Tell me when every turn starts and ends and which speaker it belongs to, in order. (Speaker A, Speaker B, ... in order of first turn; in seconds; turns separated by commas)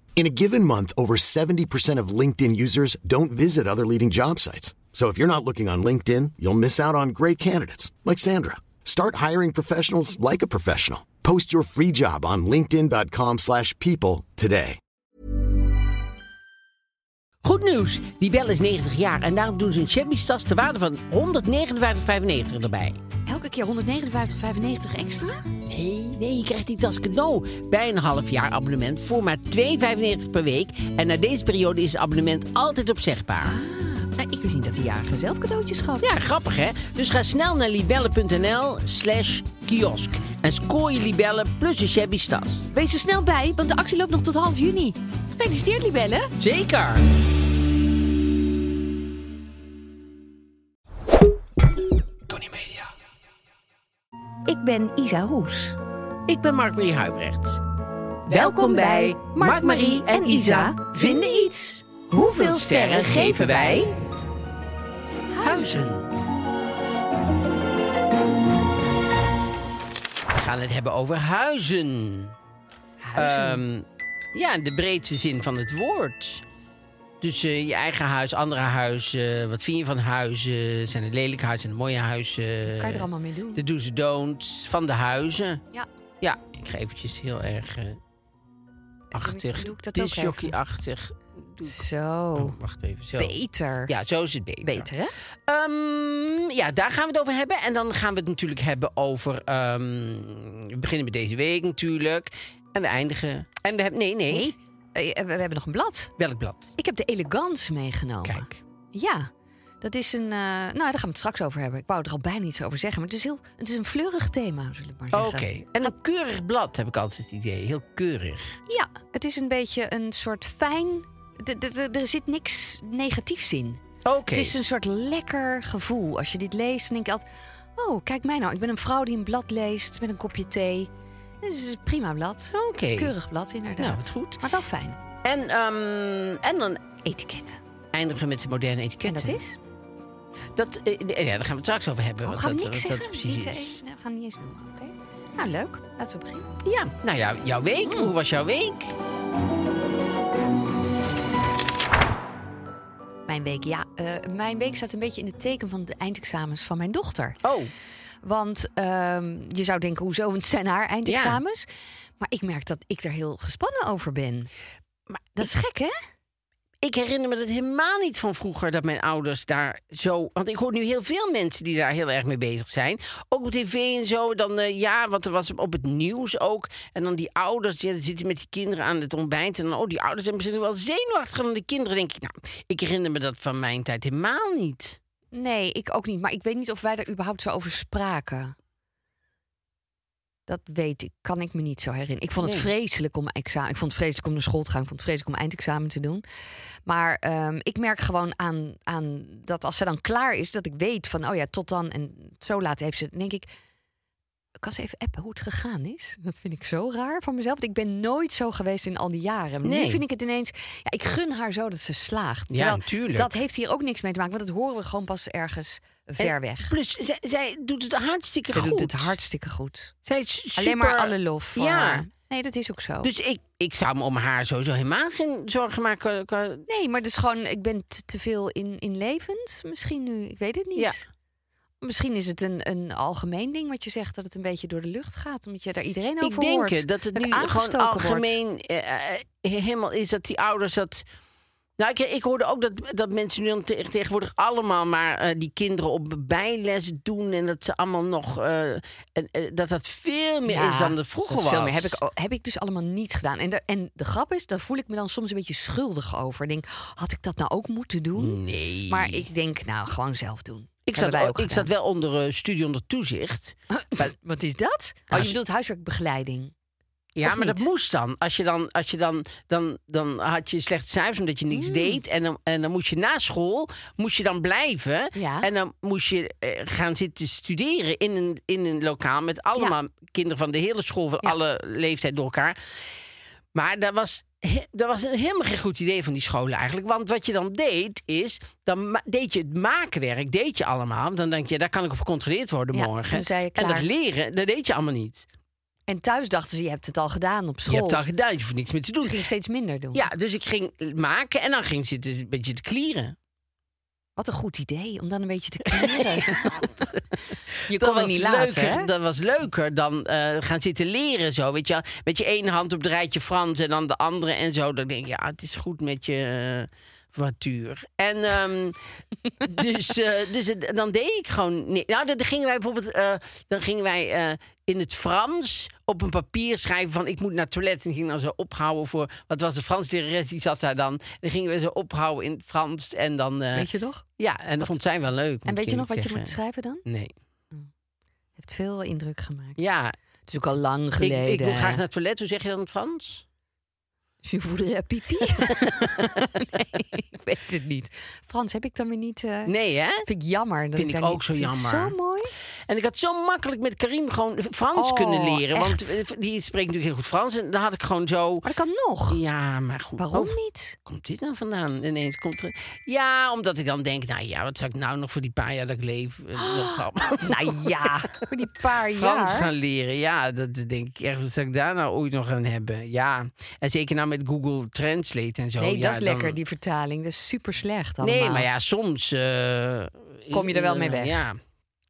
Speaker A: 0.2-14.8, Speaker B: 17.4-23.0, Speaker C: 23.3-25.5, Speaker B: 25.7-33.6, Speaker C: 33.4-36.1, Speaker B: 36.0-42.6, Speaker C: 42.7-46.3, Speaker B: 46.4-47.0, Speaker B: 52.3-52.9, Speaker C: 54.5-55.8, Speaker B: 56.3-57.6, Speaker C: 58.3-63.9, Speaker B: 58.3-63.9, Speaker C: 65.3-65.8, Speaker B: 65.4-66.1, Speaker B: 70.3-72.3, Speaker C: 73.0-73.6, Speaker B: 73.2-76.4, Speaker B: 77.2-85.6, Speaker C: 82.6-83.6, Speaker B: 86.2-88.0, Speaker C: 89.1-90.5, Speaker B: 89.1-91.8, Speaker C: 91.6-92.5, Speaker B: 92.3-94.9, Speaker C: 93.2-93.9, Speaker C: 94.6-95.1, Speaker B: 95.5-104.5, Speaker C: 104.3-106.1, Speaker B: 106.2-106.7, Speaker C: 106.8-109.3, Speaker B: 108.2-108.6, Speaker C: 109.8-115.9, Speaker B: 115.1-118.6, Speaker C: 118.7-123.8, Speaker B: 124.0-124.5, Speaker C: 124.3-130.9, Speaker C: 131.4-135.0, Speaker B: 132.5-133.1, Speaker B: 133.8-134.4, Speaker B: 135.2-136.8, Speaker C: 137.0-137.6, Speaker B: 137.9-139.4, Speaker C: 139.1-139.6, Speaker B: 140.5-143.8, Speaker C: 142.2-146.5, Speaker B: 146.6-148.9, Speaker C: 147.8-148.1, Speaker C: 153.3-157.4, Speaker B: 157.4-157.7, Speaker C: 158.2-164.5, Speaker B: 161.1-161.4, Speaker B: 165.1-165.5, Speaker C: 165.3-166.0, Speaker B: 166.8-185.0, Speaker C: 185.3-188.5, Speaker C: 190.5-196.2, Speaker B: 192.4-192.7, Speaker C: 196.8-203.5, Speaker C: 204.6-216.7, Speaker B: 209.6-210.0, Speaker B: 212.5-213.3, Speaker B: 216.2-219.1, Speaker C: 218.5-219.9, Speaker B: 220.0-222.0, Speaker C: 220.6-223.1, Speaker B: 223.0-226.7, Speaker C: 226.7-231.0, Speaker C: 231.8-238.3, Speaker B: 236.2-241.0, Speaker B: 241.8-252.0, Speaker C: 250.4-261.7, Speaker B: 258.1-259.3, Speaker B: 260.9-264.1, Speaker C: 263.8-266.5, Speaker B: 267.1-282.7, Speaker C: 267.2-267.6, Speaker C: 271.5-272.0, Speaker C: 275.1-275.5, Speaker B: 283.5-295.2, Speaker C: 292.7-293.9, Speaker C: 295.9-298.0, Speaker B: 297.7-299.2, Speaker C: 299.0-300.1, Speaker B: 299.9-303.1, Speaker C: 304.2-306.9, Speaker B: 305.7-306.8, Speaker C: 307.7-308.9, Speaker B: 307.7-318.8, Speaker B: 319.4-336.3, Speaker C: 333.5-334.0, Speaker C: 335.4-336.8, Speaker B: 336.9-337.1, Speaker C: 338.4-339.7, Speaker B: 339.6-339.9, Speaker C: 340.3-341.8, Speaker B: 341.0-343.2, Speaker C: 344.2-349.5, Speaker B: 349.5-350.1, Speaker C: 350.0-352.3, Speaker B: 350.7-351.9, Speaker B: 352.7-358.5, Speaker C: 354.7-356.0, Speaker C: 358.4-359.2, Speaker B: 359.1-368.2, Speaker C: 360.0-360.8, Speaker C: 366.4-369.5, Speaker B: 368.9-376.4, Speaker C: 375.6-378.5, Speaker B: 378.0-381.4, Speaker C: 380.3-381.2